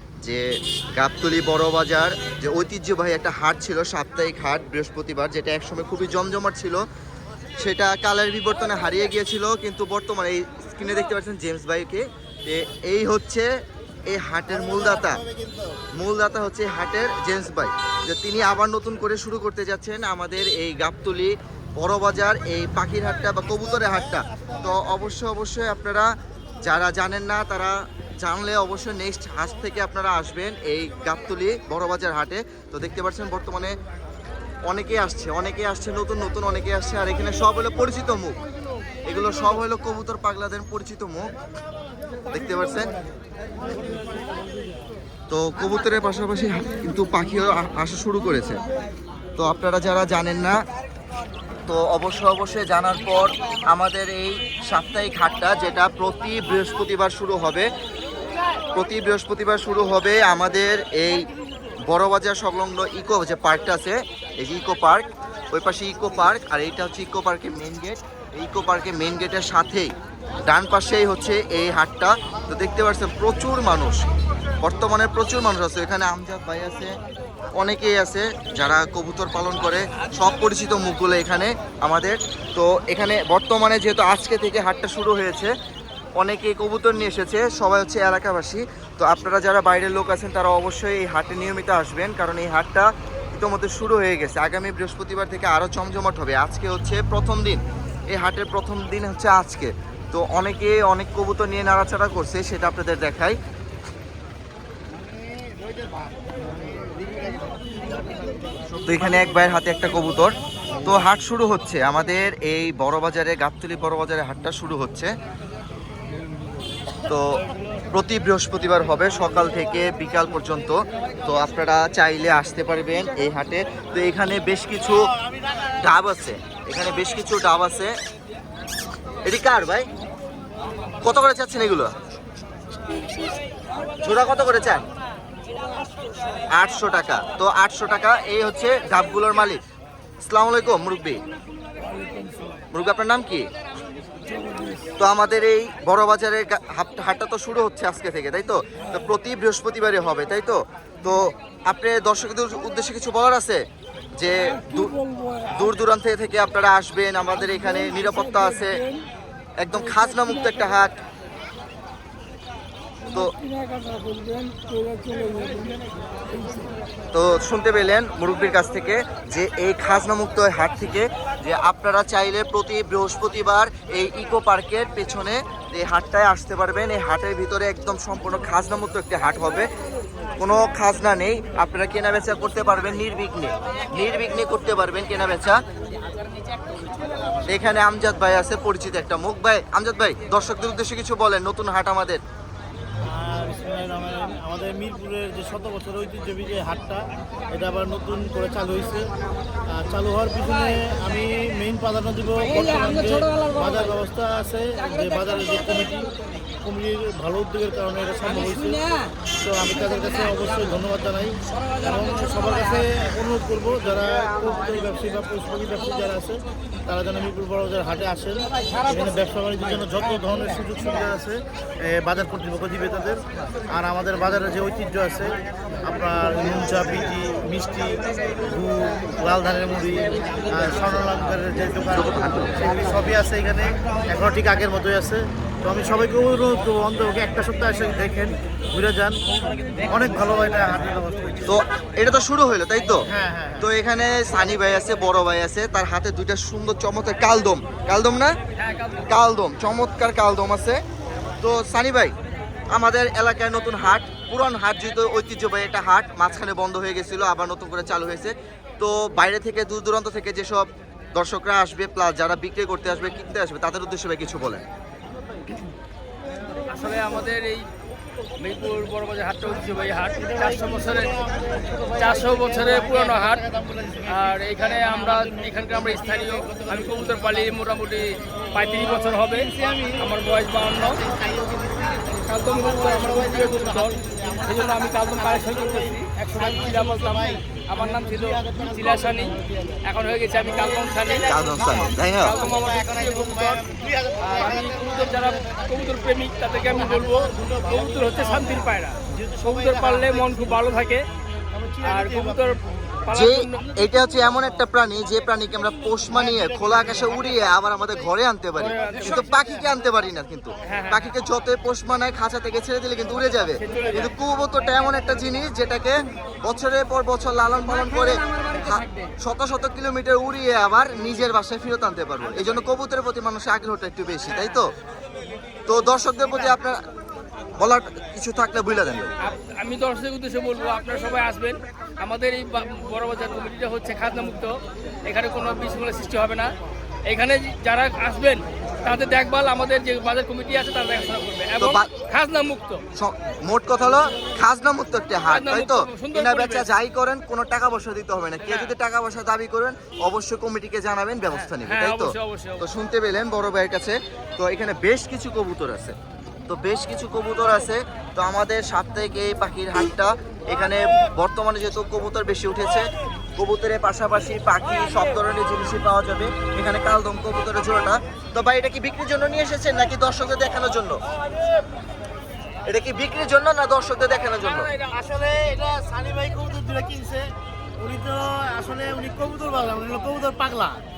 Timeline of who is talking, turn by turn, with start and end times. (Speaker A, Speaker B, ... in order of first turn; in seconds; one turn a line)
Speaker A: 0.9-6.8
Speaker A: 7.6-13.5
Speaker A: 14.1-15.2
Speaker A: 16.0-26.1
Speaker A: 26.6-33.7
Speaker A: 34.7-38.4
Speaker A: 39.1-41.3
Speaker A: 42.3-42.9
Speaker A: 45.3-48.6
Speaker A: 49.4-50.6
Speaker A: 51.7-57.7
Speaker A: 58.7-61.3
Speaker A: 61.9-69.9
Speaker A: 70.5-74.0
Speaker A: 74.6-76.9
Speaker A: 77.6-85.5
Speaker A: 86.2-97.6
Speaker A: 98.1-103.4
Speaker A: 108.8-110.3
Speaker A: 110.8-115.1
Speaker A: 117.1-117.4
Speaker A: 117.9-125.1
Speaker A: 125.8-127.9
Speaker A: 129.2-129.8
Speaker A: 131.0-131.9
Speaker A: 134.0-134.8
Speaker A: 136.6-139.6
Speaker A: 140.2-141.2
Speaker A: 142.7-143.5
Speaker A: 145.0-153.6
Speaker A: 154.2-158.8
Speaker A: 159.6-161.0
Speaker A: 167.1-179.7
Speaker A: 180.4-185.6
Speaker A: 187.5-192.2
Speaker B: 193.0-199.1
Speaker B: 199.7-206.1
Speaker B: 206.6-239.2
Speaker A: 231.9-232.7
Speaker B: 239.8-241.5
Speaker A: 241.5-243.1
Speaker B: 243.1-243.7
Speaker A: 243.6-248.4
Speaker C: 248.6-249.1
Speaker A: 249.1-250.8
Speaker A: 251.4-252.1
Speaker A: 252.7-264.6
Speaker C: 266.7-267.7
Speaker C: 268.4-271.1
Speaker B: 270.1-277.7
Speaker C: 272.0-273.4
Speaker C: 274.1-281.0
Speaker B: 278.5-280.1
Speaker B: 280.6-296.0
Speaker C: 282.1-293.6
Speaker A: 291.2-292.4
Speaker C: 294.2-301.0
Speaker B: 296.5-300.7
Speaker B: 301.5-302.6
Speaker C: 301.8-303.8
Speaker A: 303.1-324.7
Speaker B: 306.1-307.4
Speaker C: 308.6-309.2
Speaker B: 309.0-309.6
Speaker C: 310.6-311.1
Speaker C: 313.5-314.1
Speaker A: 325.7-326.8
Speaker A: 327.6-329.1
Speaker C: 329.2-336.5
Speaker C: 337.1-342.8
Speaker A: 341.6-341.9
Speaker A: 342.9-355.9
Speaker C: 345.2-346.7
Speaker C: 348.4-348.7
Speaker C: 351.3-352.6
Speaker A: 356.5-362.8
Speaker A: 363.4-371.0
Speaker A: 372.7-374.7
Speaker C: 374.2-374.9
Speaker B: 374.8-380.8